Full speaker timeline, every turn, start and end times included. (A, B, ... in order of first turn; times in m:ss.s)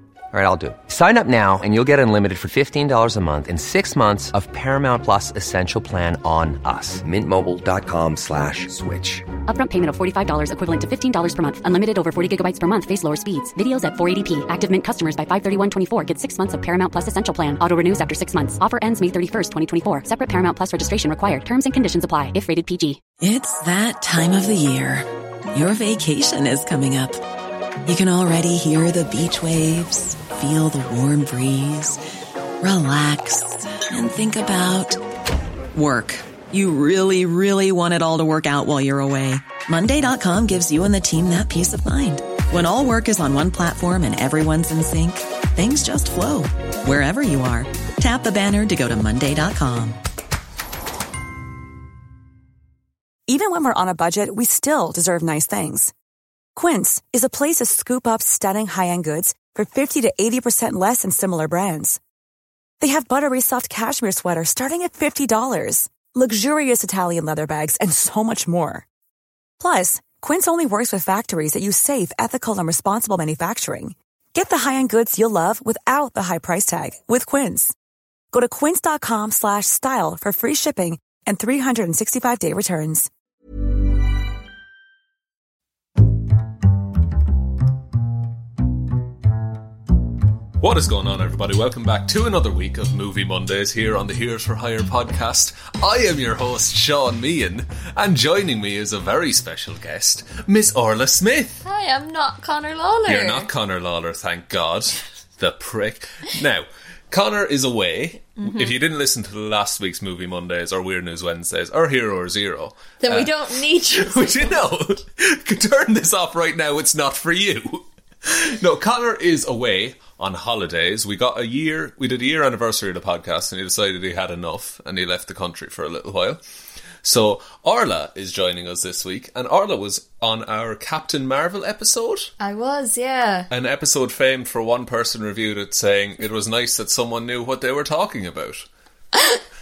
0:00.3-0:09.3 A
0:09.5-0:23.0 B
0:23.2-0:27.2 C
0:27.8-0:32.0 C
0:32.6-0:35.0 C
0:35.7-0:50.0 C
0:53.3-0:55.9 D
0:56.5-1:02.0 D
1:02.8-1:08.8 D
1:09.6-1:17.7 D
1:18.3-1:23.1 D
1:30.6-1:41.6 E
1:41.6-1:43.5 F
1:43.1-1:53.4 E
1:48.4-1:48.7 F
1:53.0-1:54.8 F
1:53.9-2:06.4 E
2:07.0-2:12.3 E
2:12.4-2:13.5 F
2:13.5-2:18.6 E